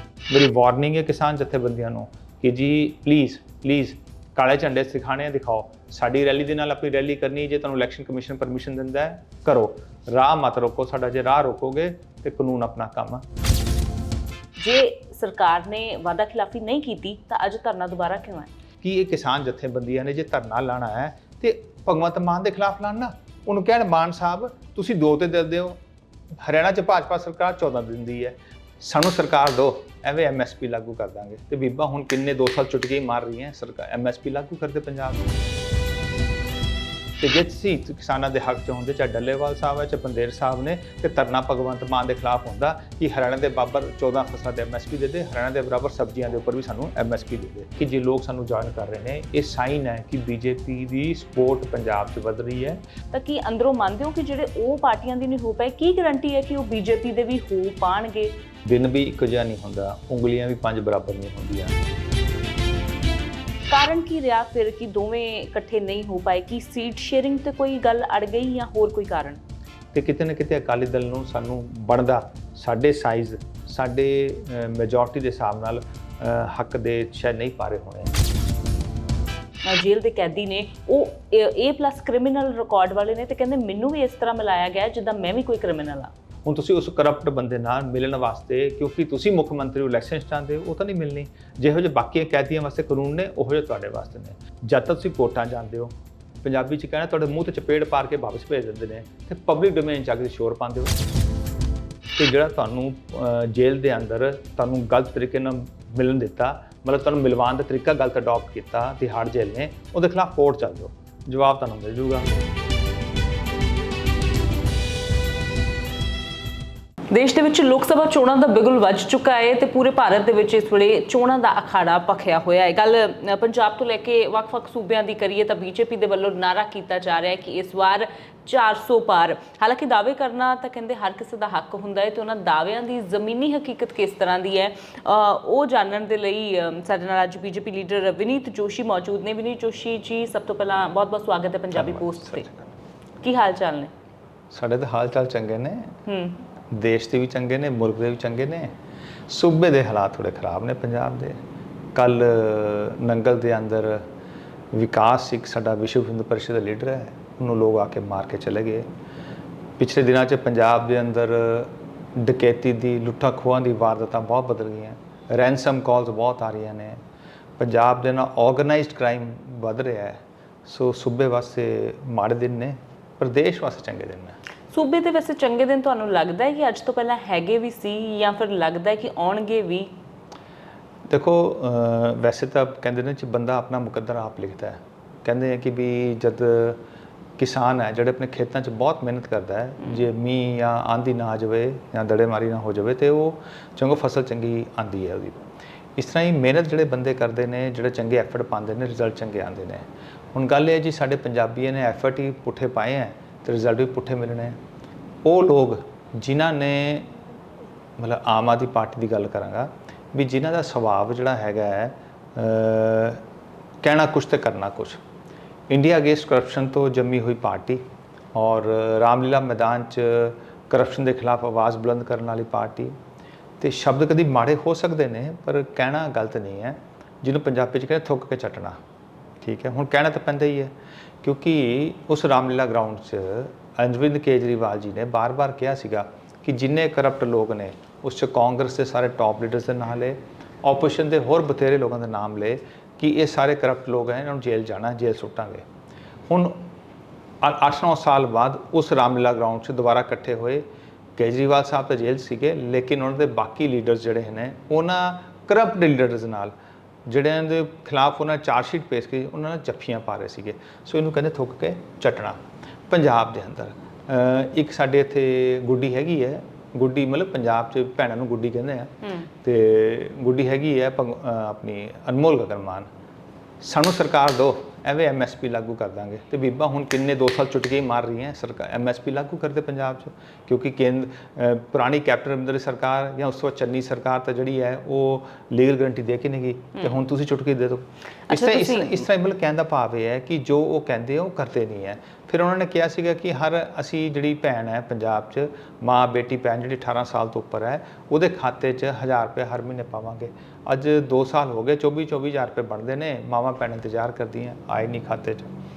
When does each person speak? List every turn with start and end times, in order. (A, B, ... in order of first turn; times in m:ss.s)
0:00.3-0:13.2 A
0:14.6-0:18.5 B
0:18.8-0:25.8 A
0:26.3-0:35.4 A
0:37.2-0:52.8 A
0:53.1-0:58.3 B
0:58.6-1:01.8 A
1:03.7-1:09.4 B
1:09.9-1:18.2 A
1:19.6-1:26.1 B
1:26.4-1:41.0 A
1:42.2-1:52.3 A
1:57.1-2:22.4 B
2:21.8-2:22.6 A
2:23.2-2:23.9 B
2:24.5-2:26.0 A
2:26.0-2:26.4 B
2:26.7-2:28.7 A
2:29.3-2:31.4 A
2:31.9-2:34.1 A
2:34.7-2:38.8 A
2:39.8-2:47.0 A
2:47.6-2:54.4 A
2:54.7-2:59.9 B
3:01.1-3:06.8 A
3:07.4-3:15.4 A
3:16.0-3:24.6 A
3:25.2-3:27.1 A
3:28.0-3:33.2 A
3:33.8-3:35.0 A
3:35.7-3:37.8 A
3:38.3-3:42.9 A
3:43.6-3:48.8 A
3:49.4-4:05.6 A
4:06.3-4:06.6 A
4:07.4-4:10.6 A
4:11.2-4:16.5 A
4:17.0-4:32.9 A
4:33.6-5:05.5 A
4:48.3-4:49.0 B